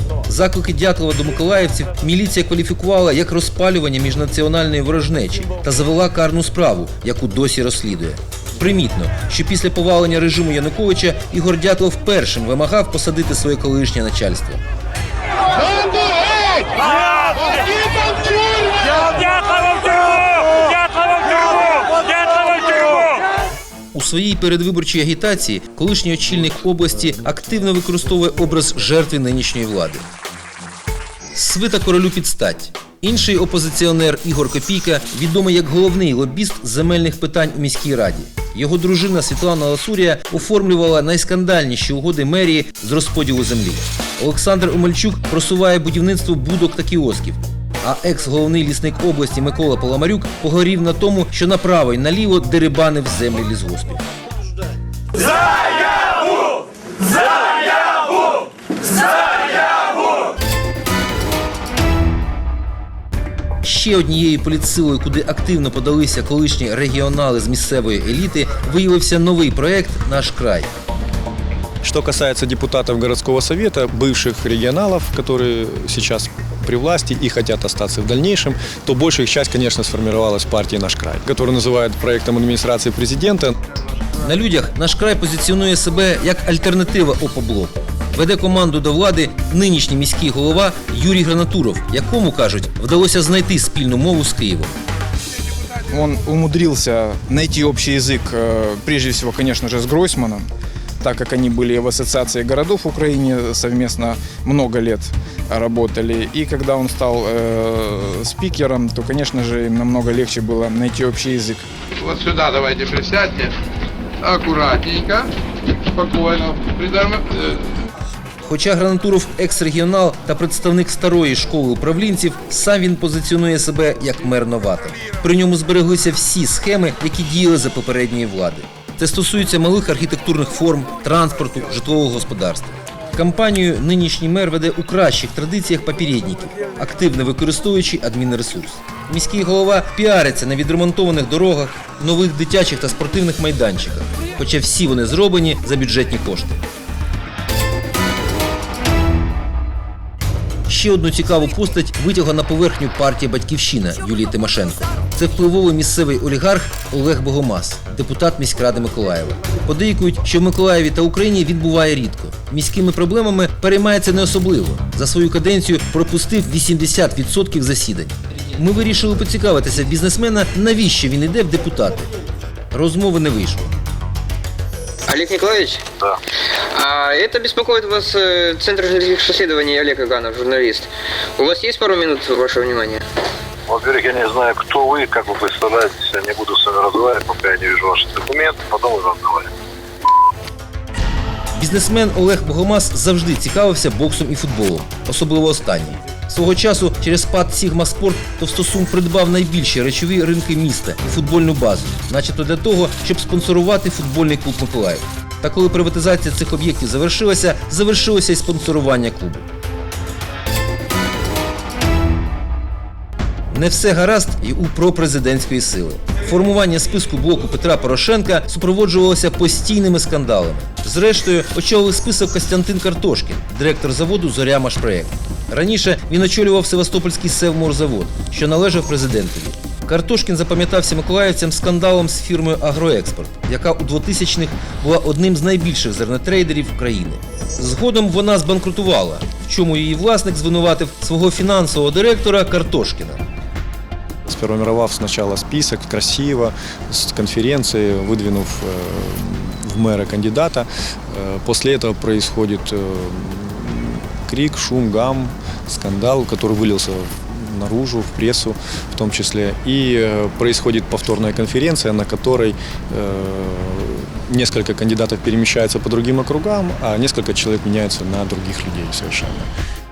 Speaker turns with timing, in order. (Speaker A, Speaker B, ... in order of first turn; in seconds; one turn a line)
Speaker A: 0.3-14.6
Speaker A: 23.9-30.1
Speaker A: 31.4-54.0
Speaker A: 63.6-70.7
Speaker B: 71.8-83.6
Speaker A: 84.2-94.8
Speaker C: 95.9-100.5
Speaker C: 101.0-111.7
Speaker D: 112.0-113.5
Speaker D: 114.2-115.3
Speaker D: 115.9-117.7
Speaker A: 118.4-146.6
Speaker A: 150.7-172.1
Speaker A: 172.7-173.7
Speaker E: 175.1-175.8
Speaker E: 176.7-183.0
Speaker F: 183.7-189.5
Speaker A: 191.6-209.4
Speaker A: 213.5-243.2
Speaker B: 244.3-269.5